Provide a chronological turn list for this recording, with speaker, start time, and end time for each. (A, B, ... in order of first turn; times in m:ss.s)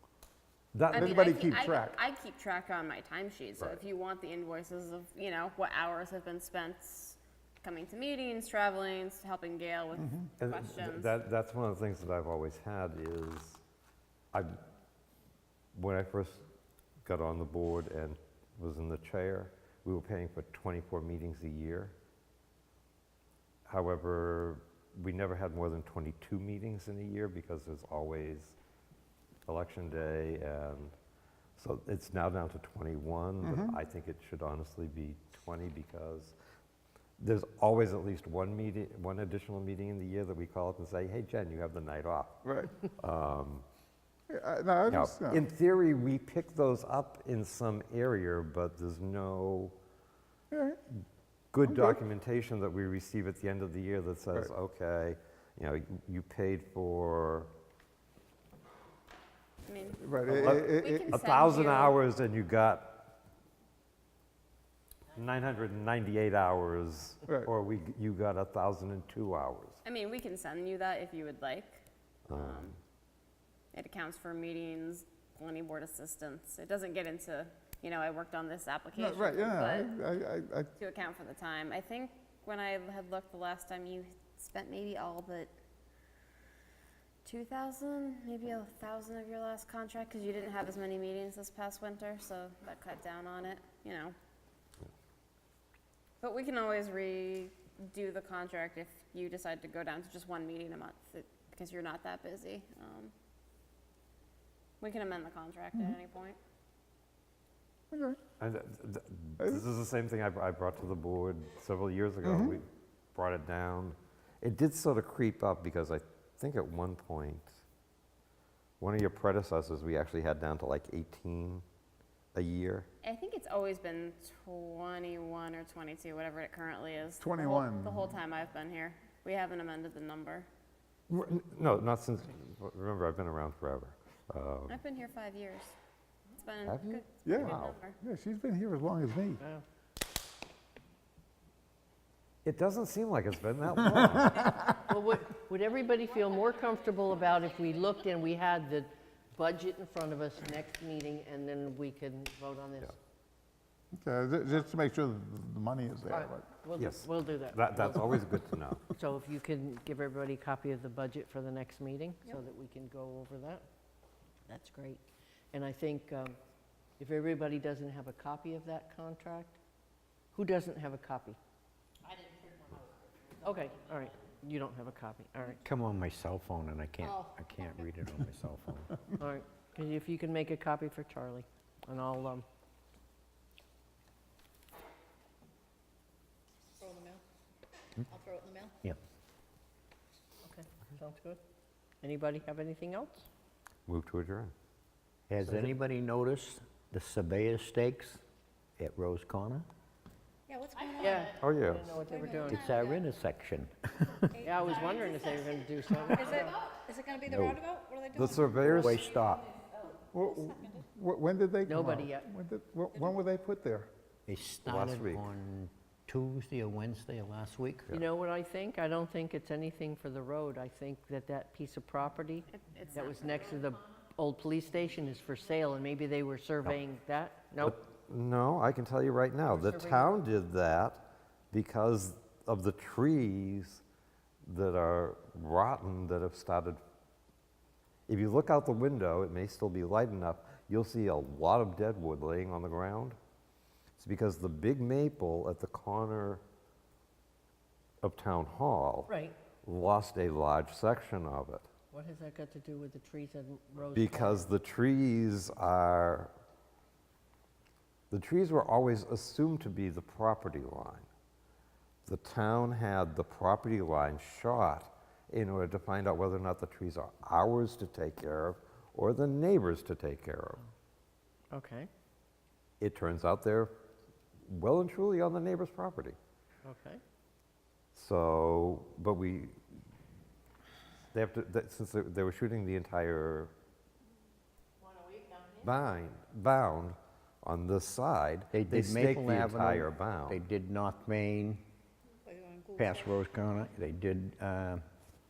0:00.7-0:01.2 A
0:00.9-0:11.1 B
0:00.9-0:02.0 C
0:10.0-0:10.3 C
0:10.4-0:13.6 A
0:15.7-0:16.4 A
0:17.0-0:21.9 A
0:23.7-0:28.6 A
0:29.4-0:30.9 A
0:31.6-0:36.3 A
0:33.4-0:33.8 C
0:37.2-0:43.6 A
0:42.4-0:42.7 C
0:44.3-0:45.4 C
0:44.9-0:49.8 A
0:50.5-0:50.8 C
0:51.5-0:57.5 A
0:51.6-0:52.0 C
0:59.6-1:00.0 B
1:00.0-1:01.1 C
1:00.3-1:03.1 A
1:00.7-1:02.0 B
1:05.1-1:09.8 A
1:07.2-1:07.5 C
1:09.8-1:12.8 B
1:12.3-1:12.8 A
1:13.7-1:19.9 B
1:18.9-1:20.7 C
1:20.8-1:25.5 B
1:27.2-1:34.2 B
1:36.2-1:43.1 B
1:44.8-1:46.4 B
1:47.9-1:48.2 C
1:48.4-1:57.6 A
1:49.4-1:49.6 C
1:52.2-1:52.6 C
1:58.8-2:01.6 A
2:02.3-2:02.9 A
2:03.0-2:10.5 B
2:07.2-2:08.2 C
2:11.1-2:14.8 A
2:14.7-2:15.7 B
2:16.4-2:18.0 B
2:16.6-2:17.8 A
2:17.2-2:19.4 C
2:22.4-2:24.6 A
2:24.0-2:24.5 C
2:24.9-2:33.0 D
2:33.9-2:36.5 C
2:36.1-2:38.4 D
2:36.7-2:38.8 A
2:39.0-2:43.6 D
2:44.5-2:45.0 D
2:45.5-2:46.4 D
2:47.0-2:49.6 D
2:50.3-2:51.4 D
2:52.4-2:52.8 E
2:53.4-2:55.6 D
2:55.6-2:59.0 F
2:59.2-3:02.4 D
3:06.8-3:07.2 E
3:08.1-3:08.7 E
3:10.4-3:11.4 D
3:12.0-3:13.3 D
3:13.9-3:14.5 A
3:15.3-3:18.2 F
3:15.4-3:15.7 A
3:18.8-3:19.7 F
3:20.5-3:21.2 E
3:20.8-3:22.7 D
3:21.4-3:21.9 A
3:22.1-3:23.0 E
3:22.4-3:24.5 F
3:24.4-3:26.6 D
3:24.4-3:24.8 E
3:26.2-3:28.9 E
3:27.3-3:27.6 F
3:28.1-3:29.0 A
3:28.5-3:29.5 F
3:30.1-3:33.9 C
3:31.6-3:32.3 D
3:34.3-3:37.9 F
3:34.6-3:35.2 A
3:37.9-3:47.8 D
3:42.5-3:43.6 B
3:47.6-3:53.8 A
3:49.5-3:50.1 D
3:54.4-3:56.8 A
3:58.1-4:03.2 A
4:04.0-4:06.4 A
4:08.0-4:09.1 A
4:09.1-4:09.4 D
4:09.6-4:11.7 A
4:11.9-4:14.5 D
4:13.9-4:16.3 A
4:18.1-4:21.1 A
4:22.0-4:30.6 A
4:31.5-4:31.9 D
4:32.8-4:33.7 A
4:34.4-4:36.2 A
4:36.6-4:37.0 D
4:37.9-4:39.6 A
4:41.1-4:43.5 A
4:45.6-4:50.4 A
4:48.5-4:51.6 F
4:52.3-4:52.8 E
4:52.8-4:54.8 F